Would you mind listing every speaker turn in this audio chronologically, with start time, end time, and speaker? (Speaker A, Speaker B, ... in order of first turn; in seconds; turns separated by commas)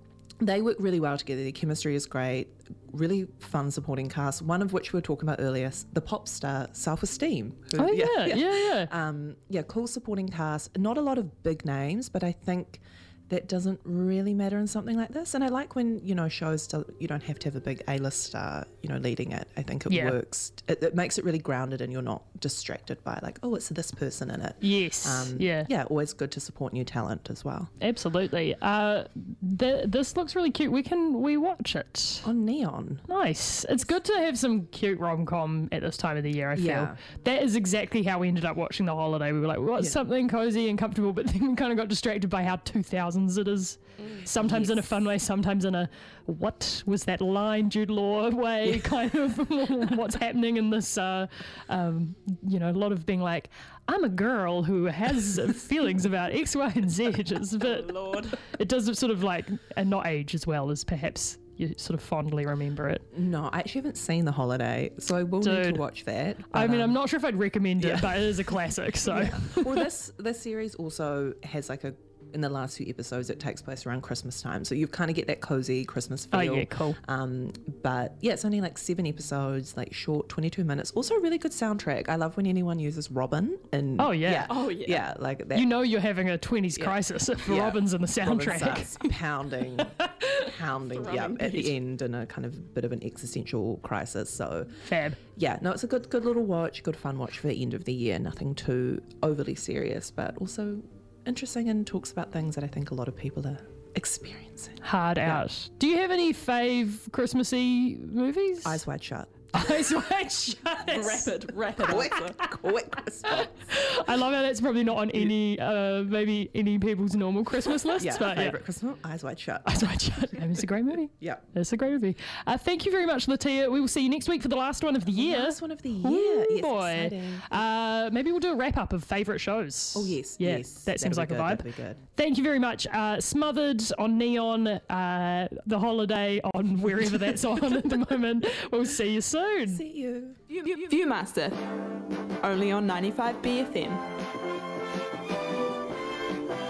Speaker A: 0.4-27.7, Speaker B: 7.8-8.9, Speaker B: 19.9-20.2, Speaker B: 24.6-25.7, Speaker B: 27.8-32.3, Speaker A: 32.2-33.0, Speaker B: 33.1-63.0, Speaker A: 36.5-37.0, Speaker A: 44.3-44.9, Speaker C: 57.9-58.3, Speaker A: 63.1-67.0, Speaker B: 65.4-65.8, Speaker B: 66.5-69.9, Speaker A: 67.8-85.8, Speaker B: 76.3-77.0, Speaker B: 84.0-84.5, Speaker C: 84.5-84.9, Speaker B: 85.5-89.0, Speaker A: 86.7-94.7, Speaker C: 91.0-91.7, Speaker B: 94.8-95.2, Speaker A: 95.3-105.4, Speaker B: 104.8-108.8, Speaker A: 108.6-109.8, Speaker B: 109.5-111.4, Speaker C: 111.0-112.1, Speaker A: 111.8-113.5, Speaker B: 113.2-118.6, Speaker A: 118.0-120.4, Speaker B: 119.6-139.8, Speaker A: 121.2-121.4, Speaker A: 125.1-127.6, Speaker A: 129.9-132.0, Speaker A: 139.7-140.4, Speaker C: 140.5-141.6, Speaker C: 142.4-144.0